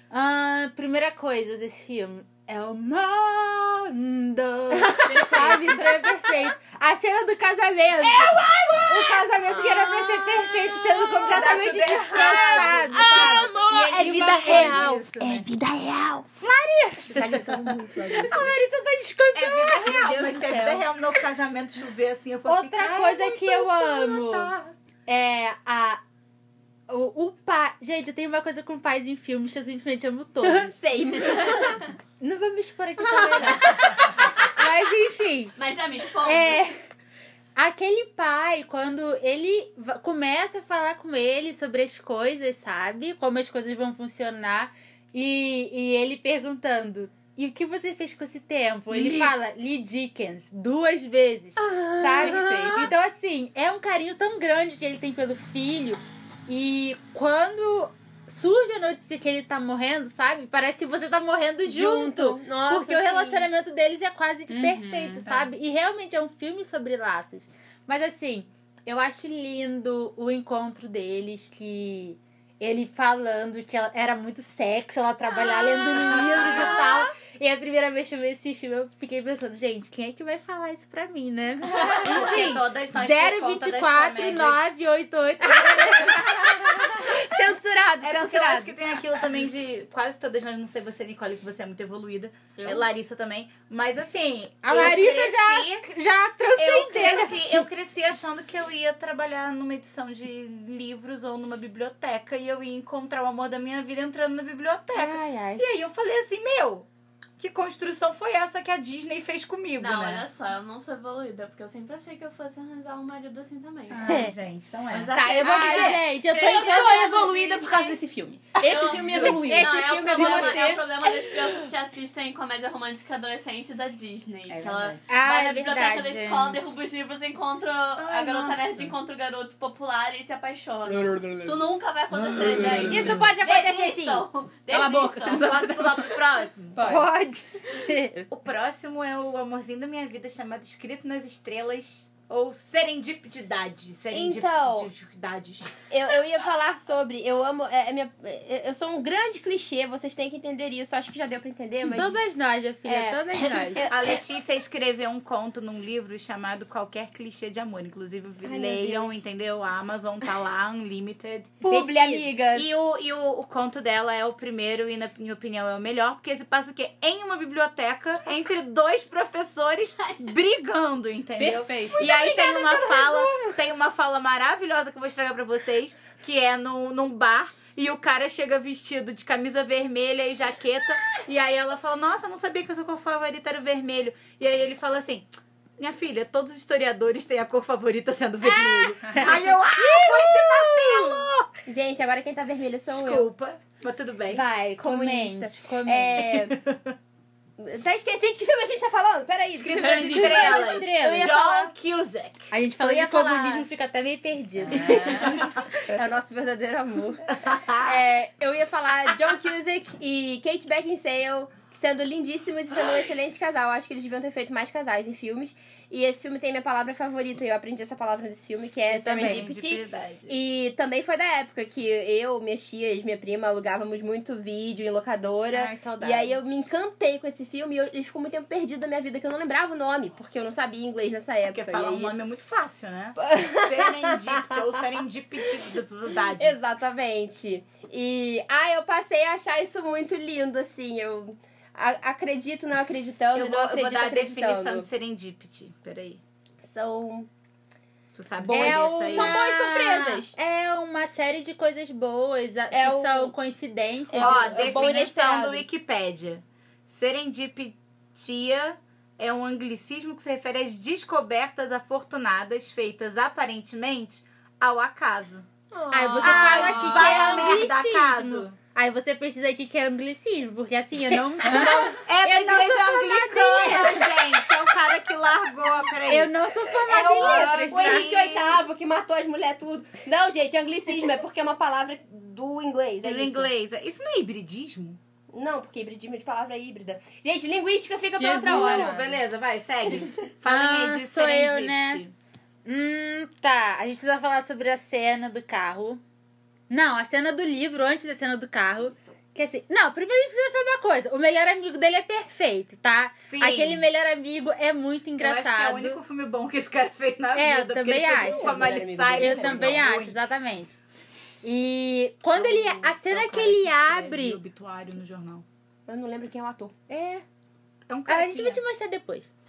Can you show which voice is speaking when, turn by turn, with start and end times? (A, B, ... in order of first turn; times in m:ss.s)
0:00.1-0:20.2 A
0:04.8-0:05.5 B
0:05.1-0:05.8 C
0:08.0-0:15.0 B
0:11.3-0:15.5 D
0:16.4-0:18.4 D
0:19.3-0:24.7 D
0:19.8-0:20.8 B
0:22.4-0:24.6 A
0:25.1-0:26.0 A
0:26.9-0:30.8 A
0:30.4-0:31.9 B
0:32.2-0:35.6 A
0:33.0-0:34.0 B
0:35.6-0:36.6 C
0:36.2-0:36.8 A
0:37.6-1:27.0 A
0:51.6-0:52.9 B
0:52.2-0:52.9 E
1:01.6-1:03.5 B
1:04.5-1:05.4 E
1:15.4-1:17.1 B
1:16.2-1:16.6 D
1:21.8-1:24.6 D
1:25.5-1:28.7 B
1:28.0-1:35.9 D
1:34.6-1:37.6 A
1:36.6-1:46.9 D
1:44.9-1:45.6 A
1:47.4-1:50.2 D
1:49.8-1:54.2 C
1:53.9-1:54.3 A
1:54.0-1:55.2 D
1:54.9-1:58.0 C
1:55.1-2:00.8 E
1:55.3-1:57.2 A
1:58.6-2:15.6 C
1:58.9-2:00.6 D
2:04.5-2:05.0 E
2:05.1-2:06.7 A
2:07.9-2:08.9 D
2:10.9-2:11.7 E
2:12.4-2:13.2 D
2:12.4-2:13.2 E
2:12.9-2:14.3 B
2:14.7-2:16.2 E
2:15.4-2:16.8 D
2:16.8-2:17.1 E
2:16.8-2:18.3 A
2:18.3-2:25.7 D
2:24.1-2:24.9 B
2:25.9-2:32.2 B
2:31.9-2:33.9 A
2:32.8-2:33.9 B
2:33.8-2:41.6 D
2:38.4-2:39.2 B
2:41.6-2:42.8 B
2:41.7-2:42.3 A
2:42.5-3:11.5 D
2:51.4-2:52.1 E
2:52.0-2:53.2 B
3:08.4-3:10.4 A
3:10.0-3:13.3 B
3:12.9-3:14.4 D
3:14.3-3:16.5 A
3:14.8-3:16.6 B
3:16.3-3:16.9 D
3:17.6-3:21.7 B
3:19.5-3:22.5 D
3:19.8-3:21.4 A
3:22.5-3:25.4 A
3:22.8-3:23.7 B
3:24.8-3:25.3 E
3:24.8-3:52.1 B
3:24.9-3:25.5 D
3:27.4-3:28.0 D
3:38.9-3:39.5 A
3:39.1-3:40.3 D
3:45.5-3:46.5 D
3:51.5-3:56.6 D
3:53.2-3:54.6 B
3:56.3-4:04.9 B
4:03.3-4:06.2 D
4:06.6-4:07.3 B
4:08.1-4:09.4 D
4:08.4-4:10.4 B
4:08.5-4:15.1 A
4:12.7-4:13.3 B
4:14.1-4:15.6 B
4:14.2-4:25.5 D
4:25.9-4:27.5 C
4:25.9-4:27.4 B
4:25.9-4:34.2 A
4:26.2-4:28.5 D
4:26.8-4:27.0 E
4:31.4-4:36.3 D
4:36.1-4:38.1 A
4:36.8-4:43.5 B
4:37.1-4:38.6 D
4:43.0-4:45.0 D
4:45.3-4:48.9 B
4:48.2-4:49.1 E
4:48.4-4:52.1 D
4:50.4-4:52.0 A
4:52.6-4:56.0 A
4:56.7-5:06.0 A
5:03.3-5:03.8 D
5:05.2-5:10.2 D
5:07.3-5:10.8 A
5:08.1-5:09.9 B
5:11.4-5:14.4 A
5:12.4-5:15.4 D
5:15.9-5:16.7 B
5:16.9-5:17.2 A
5:17.9-5:18.6 D
5:18.0-5:19.3 A